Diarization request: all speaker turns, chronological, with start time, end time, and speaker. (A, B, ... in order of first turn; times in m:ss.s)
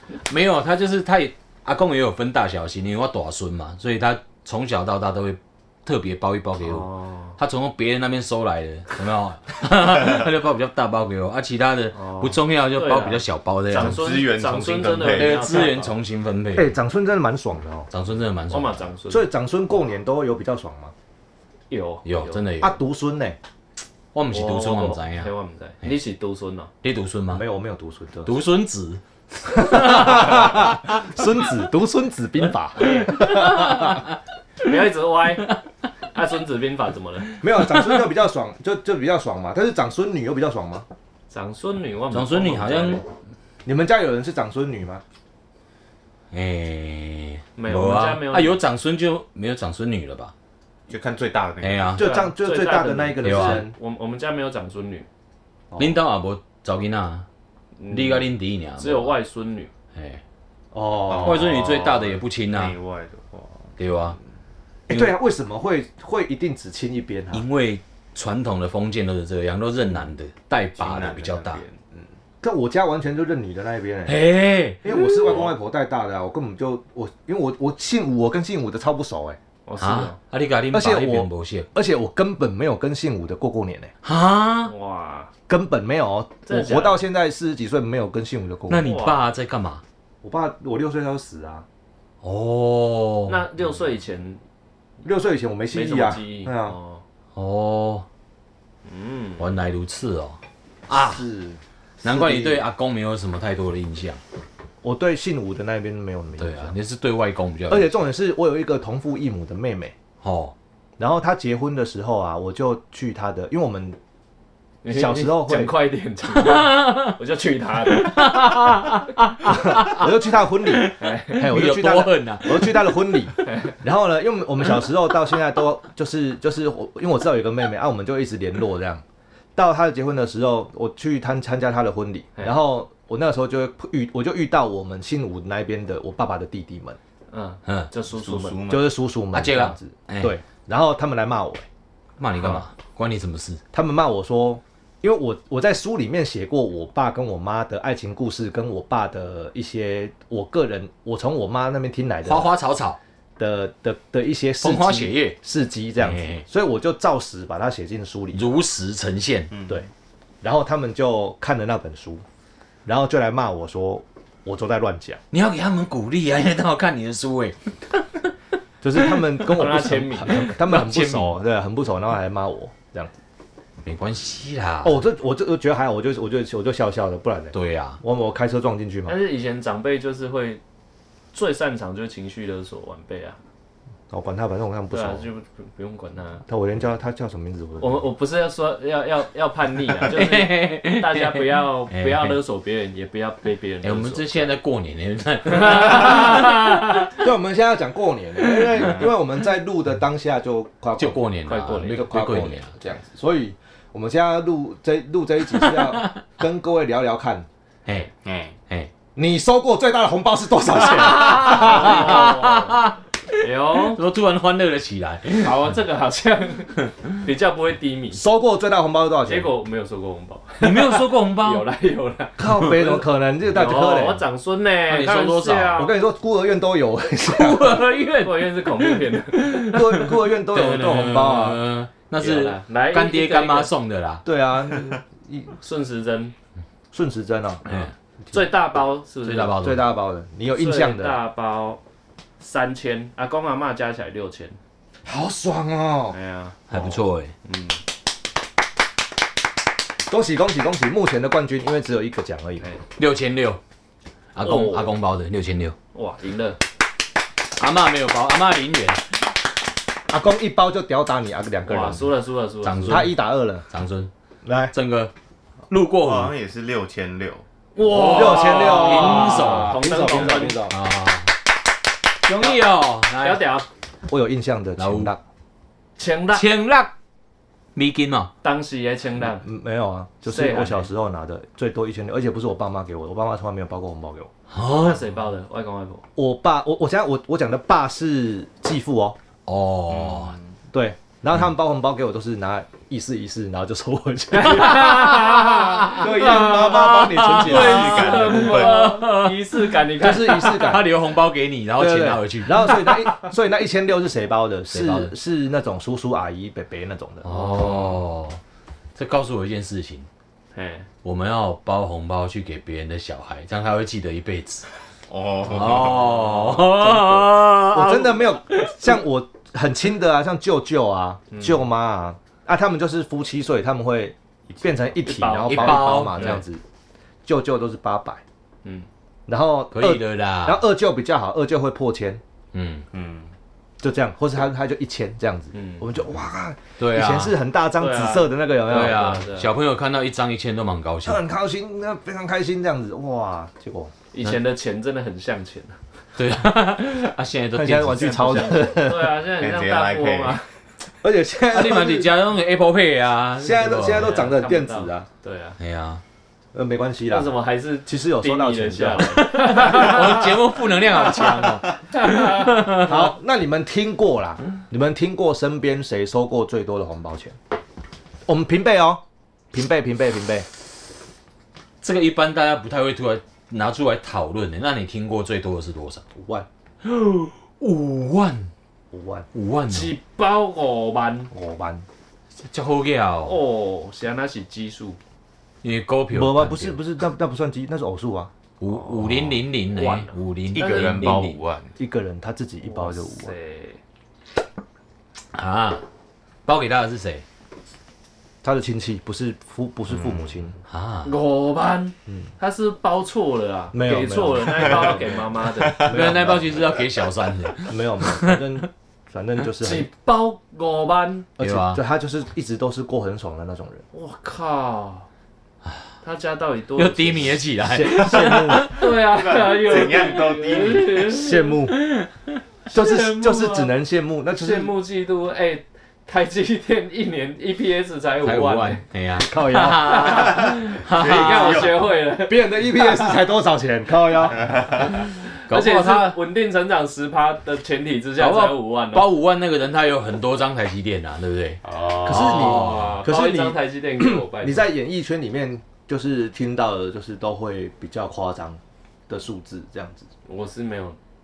0:00.3-0:14.1 A
0:06.6-0:07.4 B
0:11.9-0:16.0 B
0:13.7-0:15.7 C
0:15.0-0:16.7 A
0:16.5-0:17.9 D
0:17.9-0:18.9 A
0:18.5-0:19.3 B
0:19.1-0:20.9 D
0:21.7-0:22.5 B
0:22.0-0:22.7 A
0:22.6-0:23.4 D
0:24.1-0:25.3 A
0:24.3-0:26.7 B
0:26.8-0:27.4 A
0:27.3-0:28.4 D
0:28.2-0:30.8 A
0:29.4-0:34.0 D
0:33.0-0:34.0 A
0:34.6-0:35.5 B
0:36.1-0:37.3 B
0:37.4-0:40.8 D
0:37.7-0:38.0 A
0:41.3-0:43.0 B
0:42.1-0:43.0 A
0:43.6-0:45.0 D
0:46.3-0:50.3 A
0:47.6-0:48.6 B
0:50.9-0:52.1 C
0:51.6-0:52.0 A
0:52.0-0:53.7 D
0:52.0-0:55.1 B
0:53.2-0:53.7 A
0:55.7-0:56.0 D
0:55.8-0:57.2 A
0:57.8-0:59.7 B
0:57.9-0:59.2 A
0:59.9-1:00.2 A
1:00.7-1:01.6 D
1:01.0-1:03.7 C
1:01.2-1:02.8 A
1:03.8-1:04.2 A
1:04.9-1:07.4 D
1:04.9-1:05.1 A
1:07.3-1:11.6 A
1:10.8-1:11.8 C
1:12.4-1:14.2 D
1:14.0-1:14.8 A
1:14.8-1:19.4 D
1:19.6-1:20.2 B
1:19.8-1:21.7 A
1:20.7-1:23.9 D
1:24.0-1:24.7 A
1:24.7-1:25.3 B
1:25.5-1:28.9 D
1:26.4-1:27.0 B
1:28.7-1:29.8 A
1:28.8-1:29.2 B
1:30.2-1:31.6 D
1:32.2-1:33.4 A
1:33.3-1:34.4 B
1:35.0-1:36.8 D
1:35.7-1:37.0 B
1:37.4-1:38.0 A
1:38.8-1:39.5 B
1:39.4-1:41.3 A
1:40.9-1:42.6 D
1:42.0-1:44.2 A
1:44.8-1:46.7 D
1:46.4-1:48.1 A
1:47.7-1:49.9 D
1:50.2-1:50.5 A
1:51.0-1:54.0 D
1:54.8-1:58.8 B
1:54.9-1:55.8 D
1:56.4-1:57.2 A
1:57.9-2:00.1 A
1:59.4-2:09.0 D
2:00.6-2:03.0 A
2:01.0-2:01.5 B
2:03.4-2:03.8 B
2:09.6-2:17.0 D
2:17.3-2:18.6 B
2:18.1-2:18.9 C
2:18.7-2:21.6 D
2:19.3-2:20.4 A
2:22.2-2:23.6 A
2:23.7-2:32.5 D
2:32.2-2:33.0 A
2:33.4-2:38.5 D
2:34.6-2:35.4 A
2:36.0-2:36.4 A
2:38.3-2:39.5 A
2:39.5-2:39.8 C
2:40.4-2:42.2 D
2:42.8-2:45.2 D
2:45.3-2:48.0 A
2:48.8-2:53.2 D
2:49.5-2:50.5 B
2:50.3-2:51.3 A
2:53.8-2:55.0 A
2:54.8-2:59.2 D
2:57.5-2:58.0 A
2:59.0-3:00.6 B
3:01.3-3:03.4 B
3:04.1-3:05.3 D
3:04.9-3:06.4 B
3:06.5-3:08.0 D
3:07.8-3:14.5 B
3:10.0-3:12.4 A
3:13.8-3:17.1 A
3:15.5-3:17.1 B
3:17.1-3:21.2 D
3:18.5-3:18.9 A
3:21.0-3:22.7 A
3:21.4-3:22.0 B
3:21.9-3:27.5 D
3:25.6-3:26.2 A
3:28.2-3:28.6 C
3:29.2-3:32.2 D
3:30.8-3:35.7 A
3:31.4-3:34.0 B
3:35.3-3:38.2 B
3:38.1-3:39.5 D
3:39.2-3:42.9 B
3:40.6-3:41.7 A
3:42.4-3:44.2 D
3:43.5-3:46.0 B
3:44.9-3:45.8 A
3:45.8-3:47.8 D
3:47.2-3:54.2 A
3:48.1-3:49.7 B
3:49.6-3:51.6 D
3:52.2-3:53.7 B
3:54.2-3:55.5 D
3:55.6-3:56.3 B
3:56.9-3:57.6 D
3:57.7-3:59.6 B
3:59.2-3:59.8 A
3:59.6-4:01.2 D
4:00.5-4:01.8 B
4:02.4-4:04.6 B
4:05.0-4:06.2 D
4:06.1-4:07.8 B
4:06.7-4:07.3 A
4:10.1-4:12.7 D
4:13.0-4:13.6 A
4:14.3-4:15.8 A
4:14.4-4:14.9 B
4:15.9-4:16.6 B
4:17.5-4:19.2 A
4:20.1-4:22.1 D
4:21.6-4:23.1 B
4:22.6-4:23.2 A
4:22.9-4:23.6 D
4:23.7-4:24.1 A
4:24.4-4:24.7 D
4:24.7-4:25.1 A
4:25.7-4:26.3 A
4:26.0-4:27.4 C
4:27.8-4:30.7 B
4:27.8-4:31.3 A
4:27.8-4:30.8 D
4:32.2-4:33.4 A
4:32.2-4:32.6 B
4:33.2-4:33.7 B
4:34.1-4:35.2 D
4:34.8-4:35.1 A
4:36.0-4:36.4 B
4:36.3-4:36.9 A
4:37.7-4:38.3 A
4:38.4-4:39.4 B
4:39.2-4:44.3 D
4:40.2-4:40.9 B
4:44.5-4:45.0 A
4:44.8-4:46.0 B
4:46.2-4:49.2 D
4:49.5-4:50.4 A
4:49.9-4:50.4 C
4:50.7-4:58.1 D
4:54.4-5:00.7 B
4:54.6-5:03.1 A
4:57.3-4:58.9 C
5:00.0-5:00.9 D
5:01.8-5:07.3 D
5:04.7-5:05.1 A
5:07.2-5:08.4 A
5:07.3-5:08.0 B
5:08.9-5:10.1 A
5:10.5-5:10.9 B
5:11.0-5:14.6 A
5:15.1-5:16.5 C
5:15.4-5:18.9 A
5:16.6-5:26.6 D
5:21.3-5:21.6 B
5:25.0-5:26.4 B
5:25.4-5:26.4 A
5:27.2-5:28.2 D
5:29.3-5:32.2 D
5:29.7-5:30.6 A
5:32.5-5:32.8 A
5:32.9-5:33.3 C
5:33.8-5:39.2 D
5:35.5-5:35.9 B
5:36.8-5:37.3 A
5:37.8-5:39.5 B
5:38.6-5:41.2 A
5:41.0-5:43.9 D
5:44.1-5:45.8 B
5:46.2-5:48.4 A
5:47.5-5:49.2 D
5:47.9-5:50.5 B
5:49.4-5:50.4 C
5:51.0-5:52.1 D
5:51.5-5:54.2 A
5:53.4-5:55.1 D
5:53.9-5:55.6 B
5:55.6-5:56.0 A
5:56.5-5:57.3 D
5:57.1-6:01.2 B
5:57.8-5:59.5 D
5:59.3-6:03.0 A
6:01.9-6:02.8 B
6:02.8-6:07.4 D
6:08.2-6:09.0 D
6:09.5-6:10.4 D
6:11.8-6:16.0 A
6:16.1-6:16.5 D
6:16.8-6:18.5 A
6:18.9-6:19.3 D
6:19.3-6:19.9 A
6:19.7-6:21.3 B
6:21.3-6:21.8 D
6:22.4-6:23.4 A
6:23.2-6:25.0 B
6:25.6-6:26.8 A
6:26.1-6:28.3 D
6:28.6-6:31.4 A
6:28.7-6:31.2 B
6:30.5-6:31.8 C
6:31.8-6:33.3 D
6:32.6-6:33.8 B
6:35.3-6:35.8 A
6:36.4-6:37.2 A
6:38.4-6:40.5 D
6:40.7-6:41.1 A
6:41.0-6:46.3 B
6:43.7-6:45.1 D
6:44.6-6:44.9 C
6:45.8-6:46.8 D
6:45.8-6:48.6 A
6:47.6-6:49.9 D
6:49.6-6:51.3 B
6:51.4-6:53.8 D
6:51.4-6:51.8 A
6:53.9-6:55.1 B
6:56.0-6:57.4 B
6:56.8-6:58.8 A
6:57.6-6:58.7 D
6:58.2-7:01.6 B
6:59.0-7:01.2 C
7:01.1-7:01.9 D
7:01.8-7:02.1 A
7:02.7-7:03.7 B
7:02.7-7:04.7 D
7:04.4-7:08.8 B
7:08.2-7:11.8 A
7:09.2-7:10.4 D
7:09.5-7:13.2 B
7:10.4-7:11.9 C
7:12.2-7:14.5 D
7:14.3-7:14.9 C
7:15.0-7:19.1 B
7:15.4-7:16.2 A
7:18.2-7:23.0 A
7:21.6-7:22.7 C
7:22.0-7:30.1 D
7:22.6-7:24.6 B
7:30.2-7:31.0 B